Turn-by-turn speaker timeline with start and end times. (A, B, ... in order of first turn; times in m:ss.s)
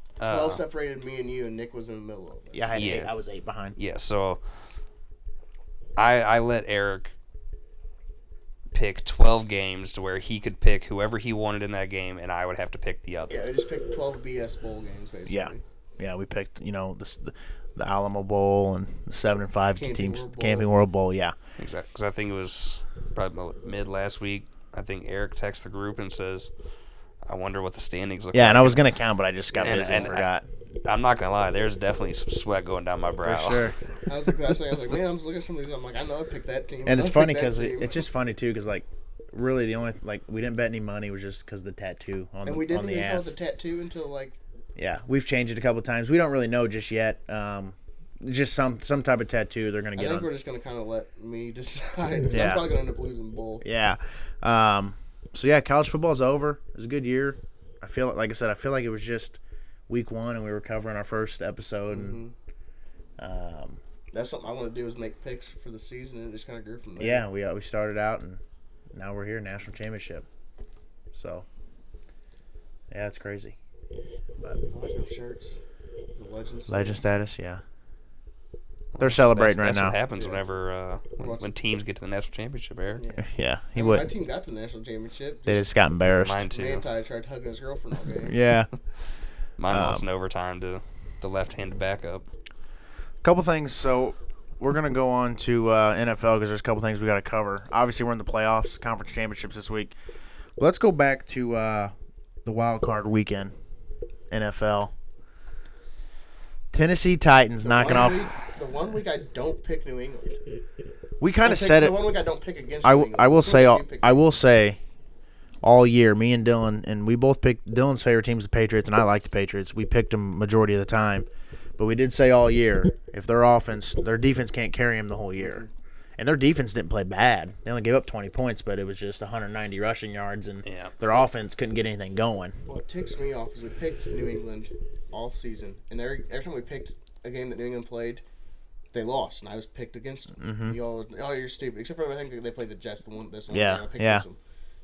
0:00.2-0:00.6 A
0:00.3-0:02.8 B
0:02.5-0:03.8 C
0:02.7-0:03.1 A
0:03.8-0:04.4 A
0:06.0-0:07.1 A
0:08.7-0:13.5 A
0:13.3-0:15.6 B
0:15.3-0:21.3 C
0:19.8-0:20.7 B
0:21.6-0:26.5 A
0:27.2-0:29.0 A
0:28.3-0:30.4 C
0:29.5-0:30.3 A
0:29.6-0:30.1 B
0:30.8-0:33.8 A
0:33.2-0:33.8 C
0:34.1-0:38.0 B
0:36.9-0:43.3 C
0:42.4-0:44.4 B
0:44.8-0:50.3 C
0:50.0-0:53.6 B
0:52.3-0:52.7 C
0:53.6-1:02.2 C
1:01.9-1:02.3 B
1:03.2-1:03.8 C
1:04.1-1:07.2 B
1:07.0-1:08.4 C
1:08.9-1:10.2 C
1:11.1-1:11.5 C
1:12.9-1:13.6 C
1:14.7-1:15.6 B
1:16.2-1:17.0 B
1:16.7-1:17.6 C
1:18.9-1:23.0 A
1:19.0-1:20.0 C
1:20.2-1:20.4 B
1:21.2-1:21.5 B
1:23.0-1:25.7 B
1:23.3-1:24.1 C
1:25.5-1:26.4 C
1:26.1-1:26.9 A
1:26.5-1:28.4 B
1:28.3-1:28.7 C
1:29.6-1:32.3 A
1:29.7-1:30.0 C
1:33.2-1:40.0 C
1:40.6-1:41.9 C
1:42.4-1:43.5 C
1:44.3-1:44.9 C
1:46.7-1:48.3 C
1:47.6-1:50.4 B
1:51.2-1:52.0 C
1:51.4-1:54.3 B
1:52.8-1:54.8 C
1:55.6-2:01.3 C
2:01.8-2:05.6 C
2:05.4-2:05.7 B
2:06.2-2:12.6 C
2:10.6-2:10.9 A
2:12.7-2:18.2 B
2:18.9-2:24.4 B
2:20.4-2:20.8 C
2:23.5-2:24.2 C